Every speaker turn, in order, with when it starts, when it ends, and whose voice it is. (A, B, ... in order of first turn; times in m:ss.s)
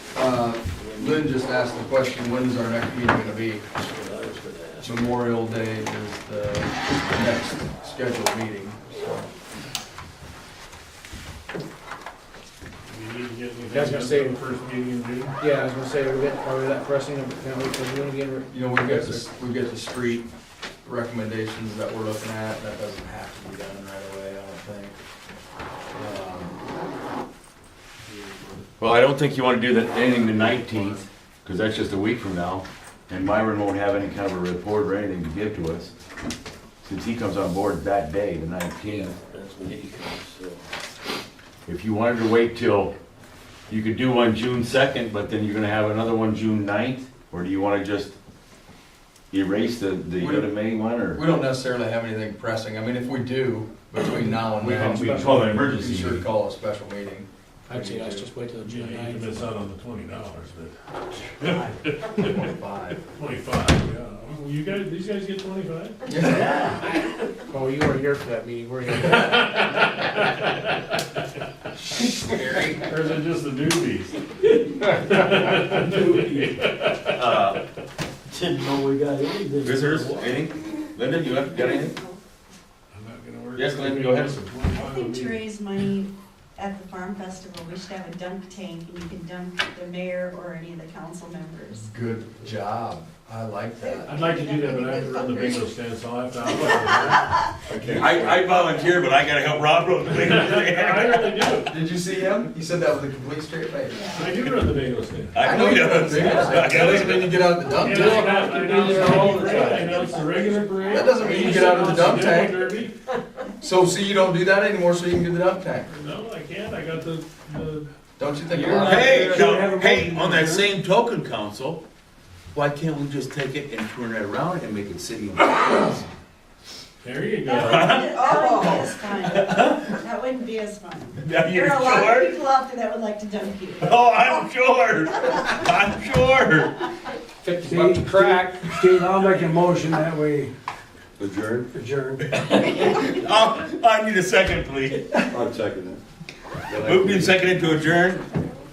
0:00.1-0:03.7 A
0:03.8-0:04.9 B
0:04.8-0:09.3 A
0:12.9-0:15.4 C
0:13.7-0:14.4 D
0:15.4-0:19.1 D
0:18.5-0:20.3 A
0:20.8-0:25.0 A
0:25.9-0:26.6 A
0:28.8-0:35.9 E
0:36.8-0:39.2 E
0:38.9-0:40.6 B
0:41.7-0:42.9 E
0:43.7-0:48.2 E
0:49.3-0:51.2 E
0:50.2-0:50.6 A
0:51.1-0:58.3 A
0:54.4-0:55.4 D
0:54.5-0:56.3 E
0:57.7-0:59.5 D
0:58.6-1:00.8 C
1:01.4-1:06.0 C
1:01.4-1:01.8 B
1:02.2-1:03.0 A
1:06.1-1:06.6 A
1:06.2-1:06.9 B
1:07.5-1:09.6 D
1:09.1-1:10.6 C
1:11.8-1:12.8 A
1:12.2-1:12.8 D
1:12.9-1:17.6 C
1:15.7-1:16.5 B
1:17.1-1:17.6 E
1:18.3-1:20.4 B
1:19.6-1:22.0 E
1:21.2-1:22.2 F
1:22.9-1:25.5 C
1:23.6-1:24.4 E
1:24.7-1:31.9 F
1:31.8-1:34.2 A
1:33.8-1:35.7 F
1:34.0-1:38.0 C
1:36.6-1:37.4 F
1:37.7-1:38.1 G
1:37.8-1:38.1 A
1:37.8-1:41.3 E
1:38.5-1:38.9 F
1:40.1-1:41.8 C
1:41.7-1:44.1 A
1:43.9-1:44.3 F
1:44.1-1:45.5 C
1:45.3-1:47.4 E
1:45.4-1:48.5 A
1:45.6-1:46.6 F
1:46.3-1:47.0 C
1:47.8-1:53.0 C
1:47.9-1:49.9 D
1:48.6-1:49.8 B
1:49.8-1:51.2 F
1:50.9-1:52.6 A
1:53.6-1:55.9 A
1:55.9-1:57.9 C
1:58.2-1:59.3 A
1:58.5-2:00.7 B
1:58.7-2:01.8 E
2:02.5-2:06.1 E
2:07.0-2:08.0 C
2:07.4-2:14.1 F
2:07.5-2:09.9 E
2:11.2-2:12.4 E
2:13.8-2:16.8 E
2:15.3-2:15.6 F
2:17.4-2:18.7 D
2:17.6-2:20.5 B
2:21.2-2:21.7 E
2:21.7-2:22.3 B
2:22.3-2:25.4 E
2:25.3-2:26.0 G
2:26.7-2:27.6 G
2:26.7-2:28.3 E